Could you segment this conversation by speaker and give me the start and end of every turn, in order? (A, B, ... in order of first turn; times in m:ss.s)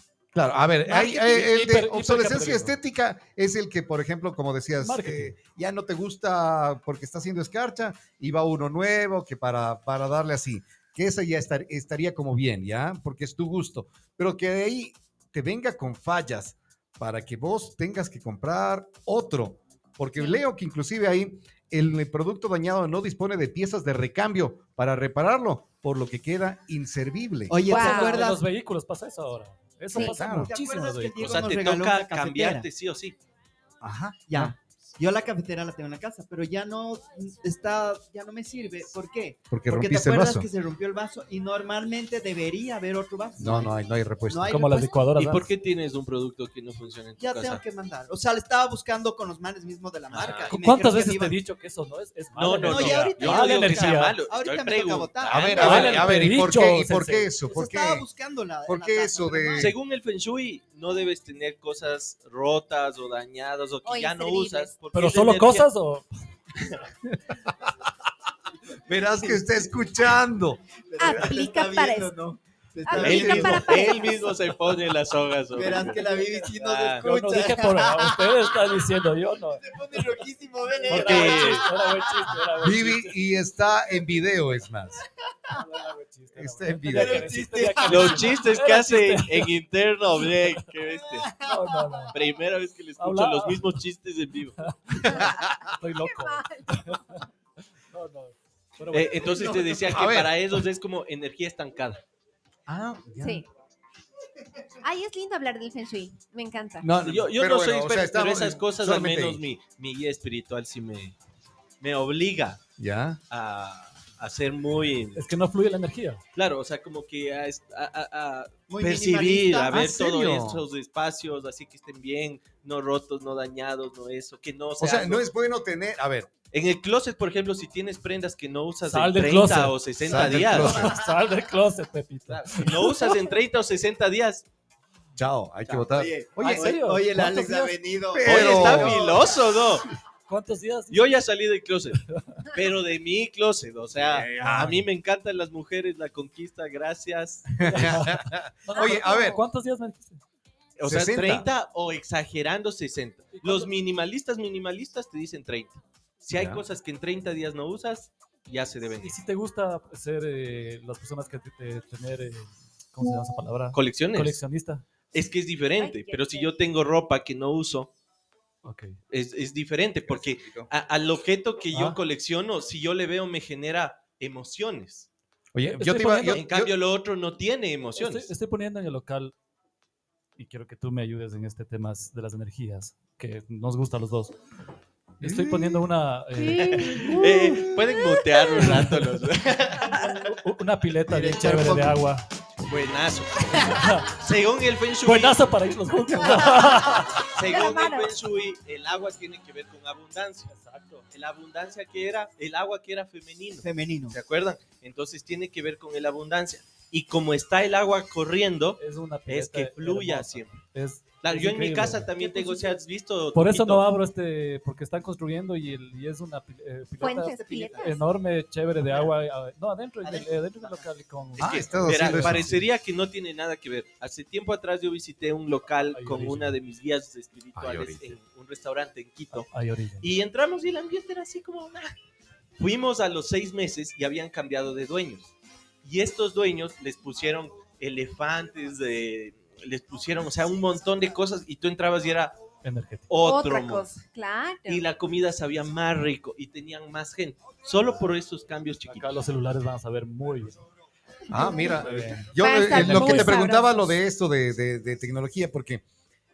0:00.3-0:27.6 A
0:00.8-0:02.7 B
0:04.8-0:05.3 B
0:27.5-0:28.4 C
0:27.7-0:28.4 D
0:27.7-0:31.5 B
0:30.0-0:30.5 A
0:30.4-0:32.7 C
0:31.2-0:33.2 E
0:33.8-0:34.5 A
0:34.3-0:43.7 C
0:39.5-0:40.5 A
0:43.4-0:44.6 A
0:44.3-0:45.1 C
0:44.5-0:45.5 B
0:45.2-0:47.6 E
0:47.2-0:51.4 C
0:50.1-0:50.6 E
0:50.5-0:54.2 B
0:52.4-0:56.2 E
0:52.6-0:56.1 C
0:55.3-0:58.0 A
0:55.6-0:57.4 B
0:57.4-0:59.7 C
0:58.6-0:59.8 A
0:59.5-1:05.7 E
1:03.8-1:04.7 D
1:04.9-1:06.1 B
1:08.9-1:10.6 A
1:09.2-1:09.4 C
1:10.9-1:13.7 C
1:11.0-1:12.1 D
1:12.8-1:14.3 D
1:12.9-1:13.6 A
1:13.0-1:16.0 E
1:15.5-1:18.8 C
1:15.6-1:16.4 B
1:16.5-1:17.0 E
1:17.0-1:20.0 B
1:19.5-1:22.5 C
1:20.9-1:21.7 E
1:20.9-1:23.1 B
1:22.6-1:25.0 A
1:25.5-1:29.5 B
1:26.3-1:27.3 A
1:26.9-1:28.3 C
1:27.8-1:31.3 E
1:31.4-1:32.2 B
1:32.1-1:34.6 E
1:33.0-1:33.7 B
1:34.6-1:37.2 B
1:35.1-1:37.0 D
1:37.9-1:39.8 B
1:38.9-1:42.0 E
1:39.2-1:39.7 C
1:39.9-1:40.6 A
1:42.7-1:43.4 A
1:43.2-1:43.4 D
1:44.8-1:46.9 D
1:46.8-1:49.4 A
1:47.0-1:51.2 E
1:51.8-1:52.6 E
1:52.8-1:53.2 A
1:53.3-1:55.2 E
1:55.1-1:56.2 B
1:56.3-2:05.2 E
1:58.7-1:59.8 C
1:59.7-2:00.6 A
2:04.8-2:06.3 A
2:06.5-2:10.9 E
2:08.8-2:13.2 B
2:10.1-2:11.0 A
2:12.3-2:14.4 E
2:15.2-2:16.8 A
2:15.8-2:19.4 C
2:16.4-2:17.8 B
2:18.1-2:19.0 A
2:18.2-2:19.9 E
2:20.3-2:21.0 B
2:20.9-2:28.0 E
2:22.1-2:22.5 B
2:24.0-2:24.8 A
2:27.6-2:29.4 A
2:27.8-2:30.2 B
2:30.8-2:39.2 E
2:30.8-2:31.5 A
2:33.3-2:33.7 B
2:36.3-2:36.6 A
2:39.0-2:44.8 B
2:43.7-2:44.4 E
2:45.1-2:47.9 E
2:45.8-2:46.5 D
2:48.6-2:49.0 B
2:49.1-2:55.1 E
2:50.1-2:50.7 A
2:55.5-2:56.7 A
2:55.8-2:56.4 B
2:56.3-2:58.3 E
2:58.0-2:59.3 B
3:00.4-3:04.4 B
3:05.2-3:07.0 B
3:05.2-3:05.9 A
3:06.3-3:07.2 D
3:06.7-3:10.0 E
3:07.0-3:07.8 A
3:08.0-3:08.5 D
3:08.6-3:09.2 B
3:10.1-3:12.2 B
3:11.1-3:12.0 C
3:12.7-3:15.4 E
3:15.0-3:17.3 B
3:16.2-3:18.1 D
3:17.1-3:20.5 E
3:20.5-3:21.0 B
3:21.1-3:30.6 E
3:23.5-3:24.2 C
3:28.8-3:32.1 B
3:31.2-3:33.8 E
3:33.3-3:42.6 B
3:37.0-3:38.0 D
3:37.1-3:38.0 C
3:38.8-3:39.1 C
3:40.0-3:40.9 C
3:41.4-3:49.5 E
3:41.4-3:42.6 A
3:45.9-3:46.6 B
3:47.6-3:48.2 A
3:49.3-3:50.0 B
3:50.0-3:51.9 E
3:52.6-3:55.3 E
3:55.8-4:02.4 E
4:02.6-4:03.1 B
4:03.1-4:03.9 E
4:03.2-4:04.8 D
4:04.7-4:09.1 E
4:08.8-4:10.6 B
4:11.3-4:15.8 A
4:11.7-4:13.3 B
4:12.3-4:13.9 D